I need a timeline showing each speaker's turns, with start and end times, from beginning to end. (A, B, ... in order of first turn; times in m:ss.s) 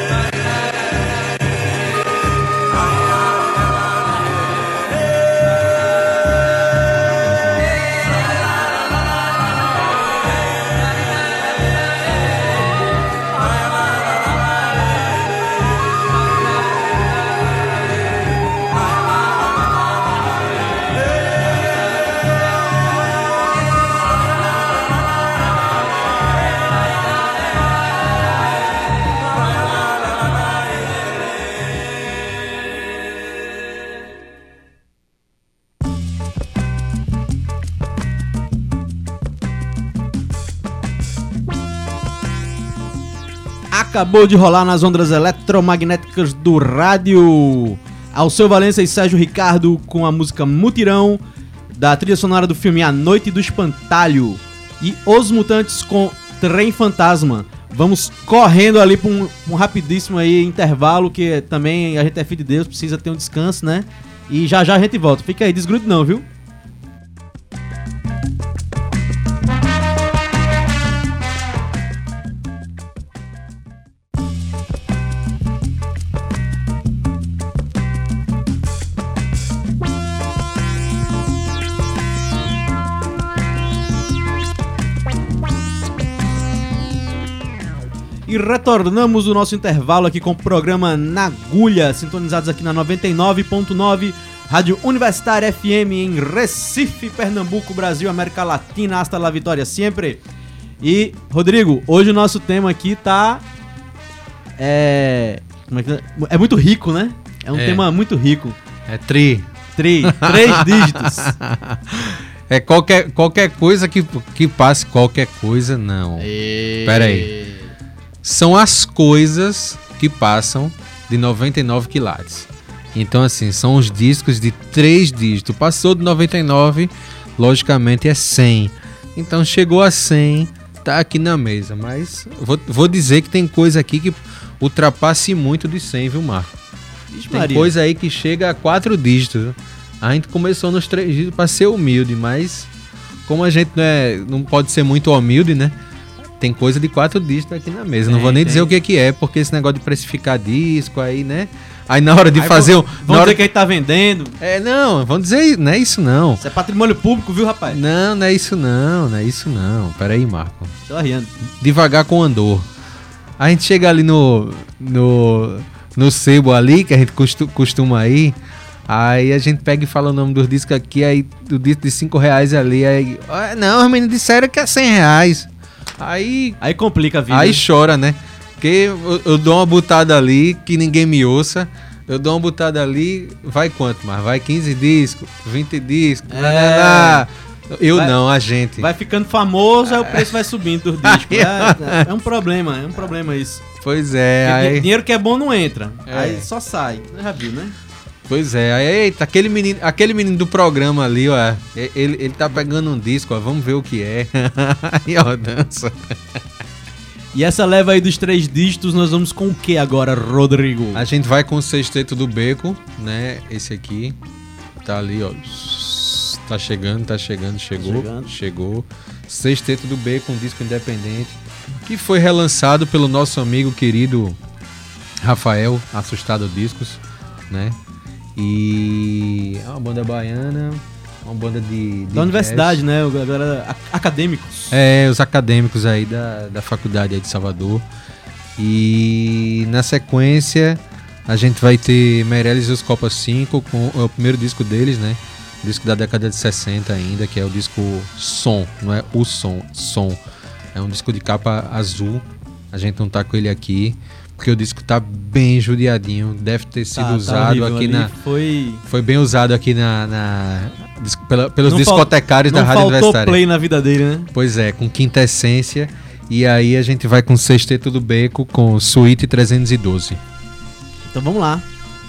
0:43.7-0:51.2 A
0:51.8-1:06.2 A
1:28.3-1:40.2 A
1:40.8-1:43.4 A
1:44.6-1:48.6 A
1:47.5-1:47.9 B
1:48.9-1:49.5 B
1:49.8-1:51.3 A
1:50.0-1:56.3 B
1:56.2-1:57.6 A
1:56.8-1:57.4 B
1:58.2-2:16.6 B
2:17.1-2:17.7 A
2:17.3-2:22.7 B
2:23.3-2:25.8 B
2:26.4-2:33.5 B
2:28.1-2:28.7 A
2:32.4-2:34.4 A
2:34.4-2:36.4 B
2:36.4-2:37.8 A
2:37.7-2:40.7 B
2:40.9-2:41.3 A
2:41.6-2:42.7 B
2:43.4-2:48.4 B
2:48.9-2:55.5 B
2:56.0-2:56.6 B
2:56.6-2:57.6 A
2:57.3-3:08.9 B
3:06.3-3:07.3 A
3:08.8-3:13.6 A
3:09.9-3:10.3 B
3:11.0-3:12.1 B
3:13.8-3:14.9 B
3:14.4-3:17.8 A
3:16.1-3:16.5 B
3:18.3-3:26.4 B
3:27.3-3:31.1 A
3:31.0-3:34.2 B
3:34.8-3:44.4 B
3:37.8-3:38.3 A
3:45.2-3:47.8 B
3:48.4-3:52.8 B
3:52.1-3:54.8 A
3:54.7-3:57.9 B
3:58.6-4:10.2 B
4:10.8-4:18.1 B
4:17.0-4:18.8 A
4:18.9-4:23.4 B
4:21.6-4:24.3 A
4:24.3-4:30.2 B
4:31.0-4:31.7 A